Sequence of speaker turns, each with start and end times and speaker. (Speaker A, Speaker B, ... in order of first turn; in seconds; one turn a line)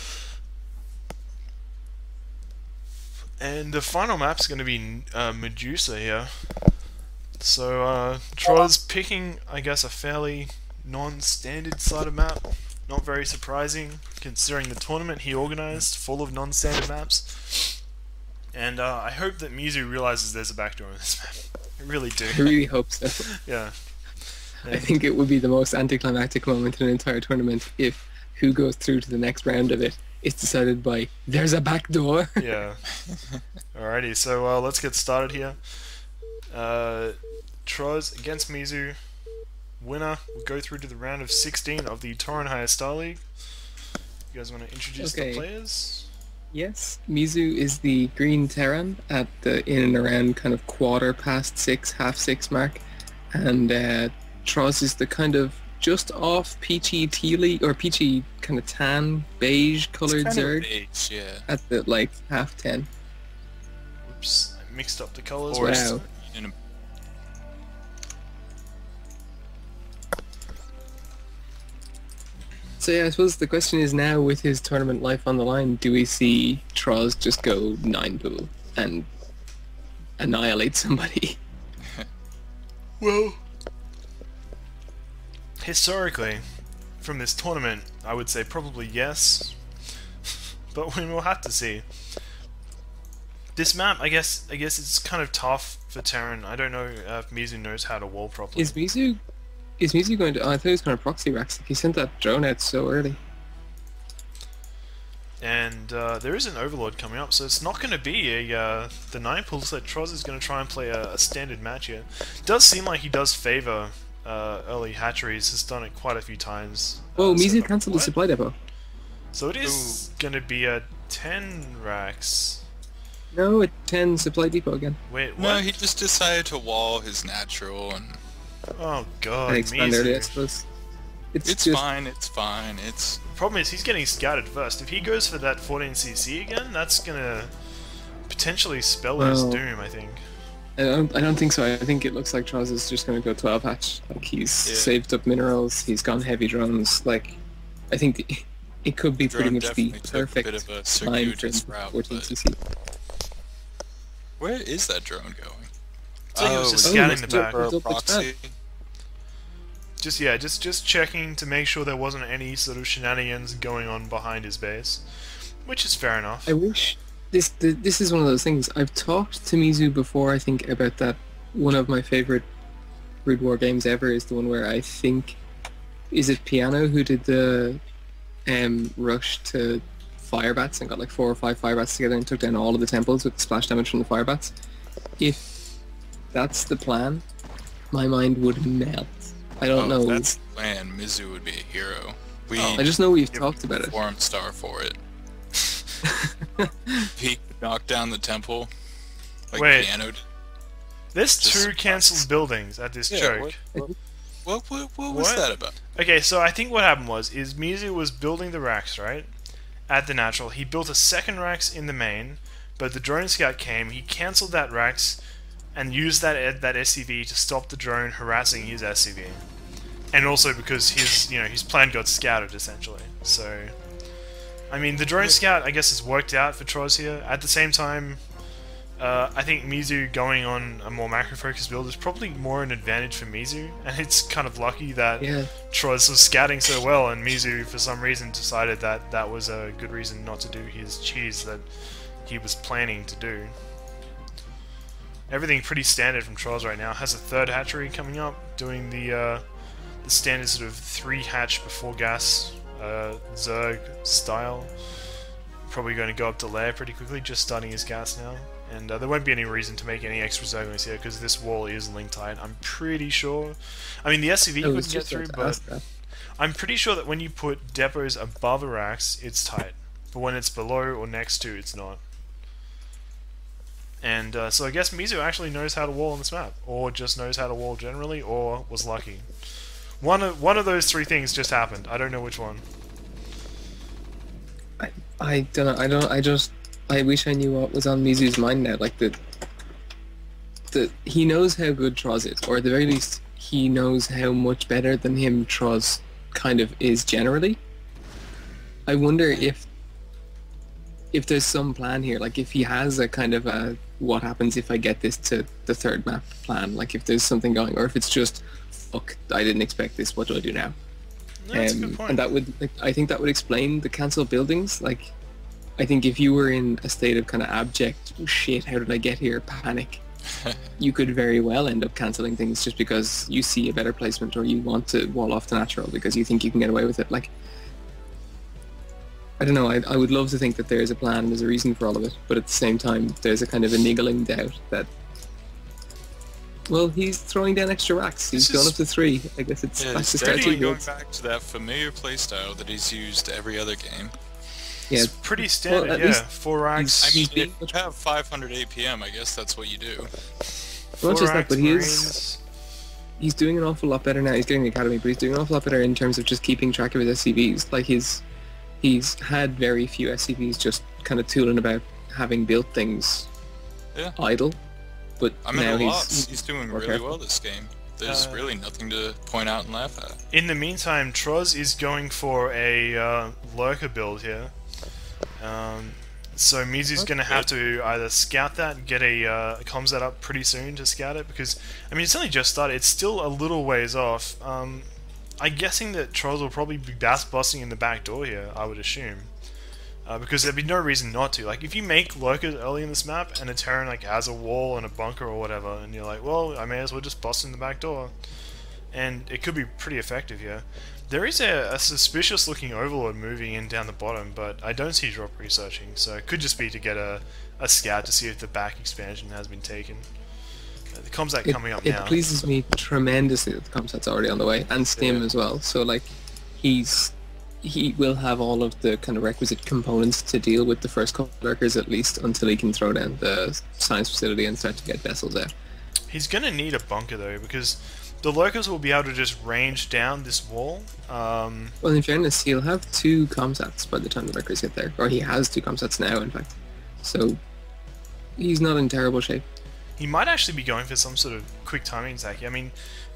Speaker A: 3.4-6.5
Speaker A: 7.4-17.8
Speaker A: 18.5-22.6
Speaker B: 22.3-23.3
Speaker A: 23.4-23.8
Speaker A: 24.3-25.0
Speaker B: 24.7-32.5
Speaker A: 32.4-32.8
Speaker A: 33.7-36.0
Speaker A: 36.5-39.0
Speaker A: 39.8-43.2
Speaker A: 44.3-46.1
Speaker B: 45.0-45.5
Speaker B: 46.5-60.7
Speaker C: 60.1-61.5
Speaker B: 61.5-62.9
Speaker A: 64.0-65.9
Speaker C: 65.5-66.5
Speaker B: 65.6-66.0
Speaker B: 72.8-79.1
Speaker B: 80.2-81.4
Speaker A: 83.0-83.4
Speaker A: 85.6-86.4
Speaker A: 87.0-89.6
Speaker A: 90.7-91.8
Speaker A: 93.6-98.8
Speaker B: 98.6-99.2
Speaker B: 99.8-103.2
Speaker A: 105.4-118.2
Speaker B: 117.2-118.5
Speaker A: 119.3-122.6
Speaker C: 119.6-120.1
Speaker B: 123.3-125.0
Speaker A: 125.1-125.7
Speaker C: 125.4-128.2
Speaker A: 128.8-130.4
Speaker B: 129.5-130.7
Speaker B: 131.3-131.8
Speaker C: 131.4-133.2
Speaker A: 133.3-137.5
Speaker A: 138.3-140.2
Speaker B: 139.2-139.6
Speaker B: 140.8-147.4
Speaker C: 144.6-145.0
Speaker B: 147.9-152.6
Speaker C: 149.3-152.3
Speaker C: 154.4-155.7
Speaker C: 156.3-158.5
Speaker A: 156.4-157.7
Speaker B: 156.8-158.3
Speaker A: 160.0-165.1
Speaker A: 165.6-166.5
Speaker B: 166.5-172.5
Speaker B: 173.2-175.4
Speaker B: 176.1-177.8
Speaker B: 178.5-184.5
Speaker B: 185.2-185.4
Speaker B: 186.3-187.2
Speaker B: 187.9-190.4
Speaker C: 189.7-192.9
Speaker A: 192.6-193.5
Speaker B: 192.7-194.0
Speaker C: 193.8-195.0
Speaker B: 196.0-197.1
Speaker C: 197.2-198.7
Speaker C: 199.5-200.2
Speaker A: 199.6-199.9
Speaker A: 201.1-203.6
Speaker C: 201.4-202.3
Speaker C: 203.1-203.9
Speaker C: 204.5-205.8
Speaker A: 205.1-209.3
Speaker A: 209.9-215.2
Speaker A: 215.8-219.4
Speaker A: 220.1-223.8
Speaker A: 224.7-228.2
Speaker A: 229.0-241.7
Speaker B: 235.2-235.5
Speaker A: 242.2-243.6
Speaker A: 245.3-249.4
Speaker A: 250.0-254.8
Speaker A: 255.7-265.6
Speaker B: 264.6-265.8
Speaker A: 266.4-272.0
Speaker A: 274.0-279.3
Speaker A: 280.0-282.6
Speaker B: 284.8-289.2
Speaker B: 290.7-297.6
Speaker B: 298.9-299.7
Speaker B: 301.1-310.8
Speaker A: 311.4-312.2
Speaker B: 311.5-315.1
Speaker B: 315.8-320.0
Speaker B: 320.8-327.3
Speaker B: 329.4-334.9
Speaker B: 336.7-340.9
Speaker A: 338.3-338.8
Speaker C: 339.8-344.1
Speaker A: 340.2-340.7
Speaker B: 344.9-347.7
Speaker A: 344.9-347.2
Speaker C: 347.0-350.1
Speaker B: 351.0-352.1
Speaker A: 351.0-352.4
Speaker B: 353.2-358.2
Speaker B: 358.8-363.3
Speaker B: 364.2-364.6
Speaker B: 365.2-367.2
Speaker C: 365.4-370.2
Speaker A: 368.1-368.5
Speaker A: 370.3-374.5
Speaker A: 375.4-384.9
Speaker C: 377.2-377.5
Speaker A: 385.4-389.3
Speaker A: 390.1-398.1
Speaker A: 398.9-410.1
Speaker A: 410.9-412.3
Speaker B: 411.4-425.5
Speaker C: 415.0-415.3
Speaker A: 426.1-431.8
Speaker B: 431.8-437.4
Speaker B: 438.4-439.4
Speaker A: 440.0-442.7